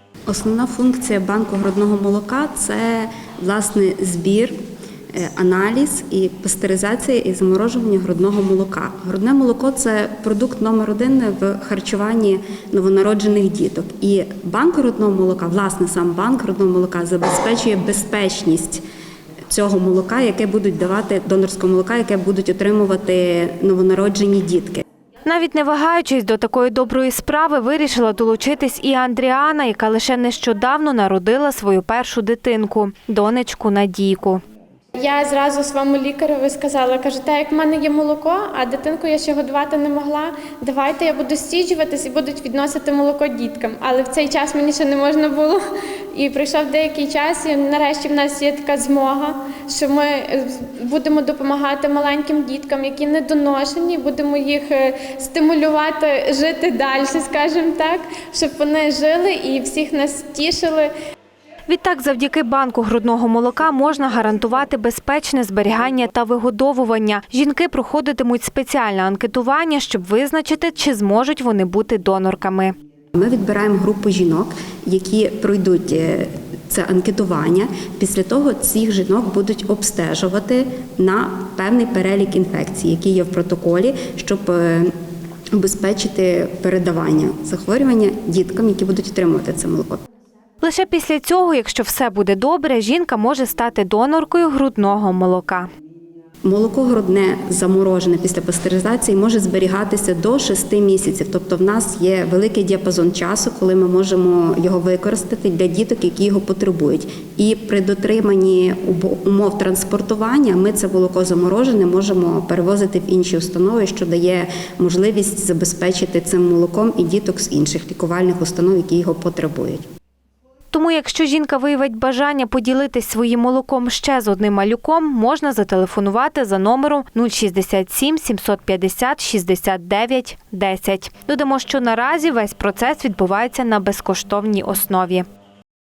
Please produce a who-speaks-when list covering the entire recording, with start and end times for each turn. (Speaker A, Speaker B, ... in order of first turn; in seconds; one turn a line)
Speaker A: 0.3-4.6
Speaker A: 5.1-18.8
Speaker A: 19.5-24.8
Speaker B: 25.2-34.4
Speaker C: 35.0-45.6
Speaker C: 46.1-60.9
Speaker B: 61.7-72.7
Speaker A: 73.1-84.9
Speaker A: 85.5-90.0
Speaker B: 90.6-95.7
Speaker A: 96.4-119.8
Speaker B: 120.7-135.2